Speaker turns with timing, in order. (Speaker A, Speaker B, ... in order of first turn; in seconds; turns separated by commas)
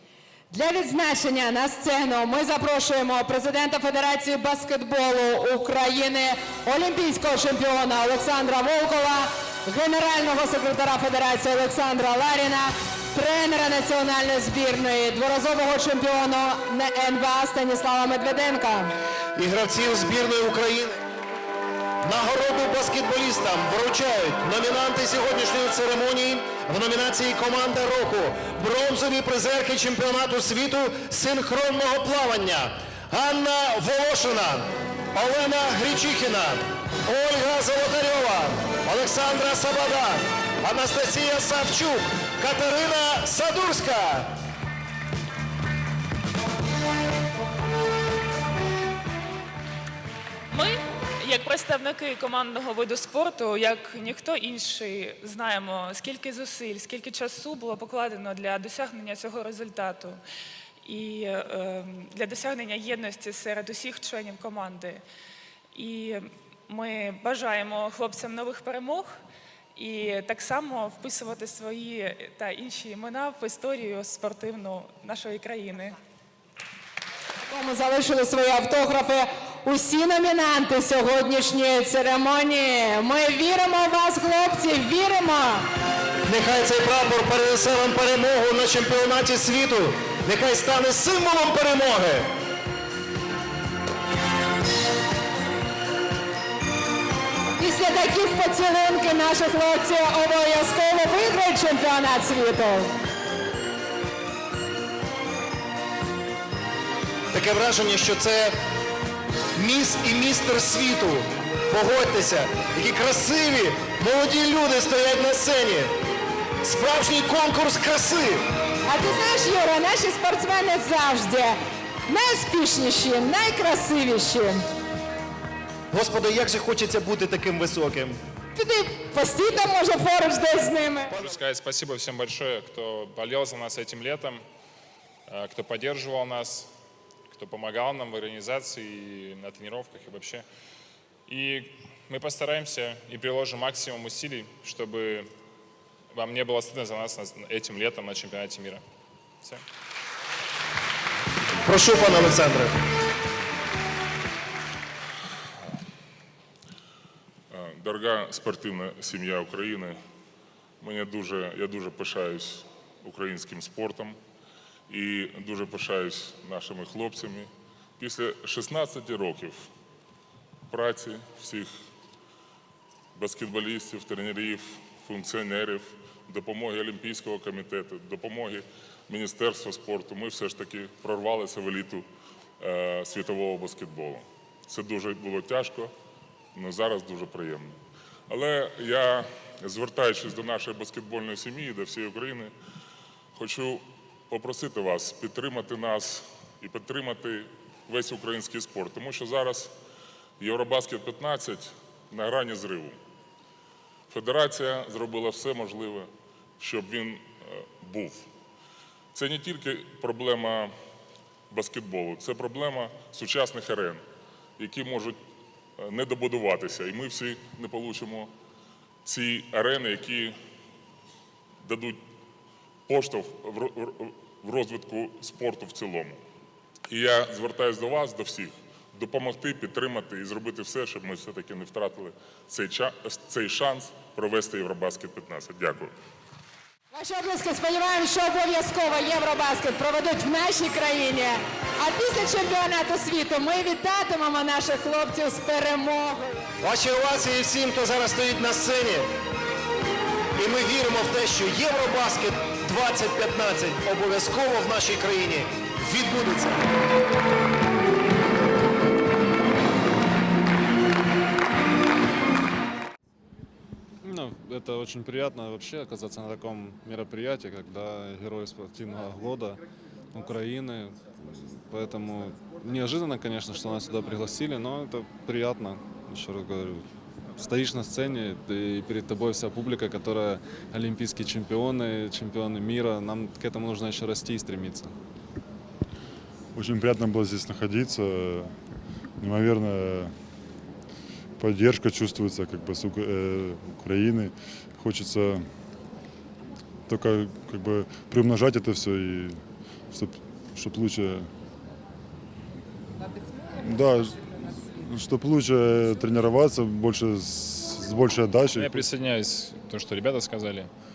Speaker A: 0.5-18.9, Speaker B: 19.4-21.0, Speaker B: 22.0-44.3, Speaker C: 50.5-60.2, Speaker C: 60.9-65.0, Speaker C: 65.7-69.1, Speaker C: 69.8-76.0, Speaker A: 77.5-85.7, Speaker B: 86.3-92.3, Speaker A: 97.6-102.9, Speaker B: 107.3-108.6, Speaker B: 109.6-115.9, Speaker B: 116.6-118.5, Speaker A: 118.9-124.7, Speaker B: 125.9-128.2, Speaker A: 128.6-131.1, Speaker D: 131.1-134.4, Speaker D: 135.3-136.7, Speaker D: 137.3-140.4, Speaker D: 141.3-145.3, Speaker D: 146.1-148.8, Speaker B: 151.6-152.7, Speaker E: 157.5-160.0, Speaker E: 160.8-164.2, Speaker E: 164.9-169.7, Speaker E: 170.7-171.7, Speaker E: 173.2-182.1, Speaker E: 182.6-185.9, Speaker E: 186.6-187.8, Speaker E: 188.3-192.5, Speaker E: 193.4-199.7, Speaker E: 200.4-203.0, Speaker E: 204.1-208.2, Speaker E: 209.1-210.7, Speaker E: 211.5-214.0, Speaker E: 214.6-215.2, Speaker E: 215.8-218.3, Speaker E: 219.1-220.4, Speaker E: 221.6-222.0, Speaker E: 222.9-226.2, Speaker E: 226.9-235.9, Speaker A: 236.9-246.5, Speaker B: 246.6-249.1, Speaker B: 250.4-256.7, Speaker F: 264.0-271.0, Speaker F: 271.7-284.9, Speaker G: 286.6-288.5, Speaker G: 289.2-290.1, Speaker G: 291.4-295.4, Speaker G: 296.9-299.4, Speaker G: 299.9-301.3, Speaker G: 303.5-304.2, Speaker G: 304.7-308.9, Speaker D: 308.6-310.7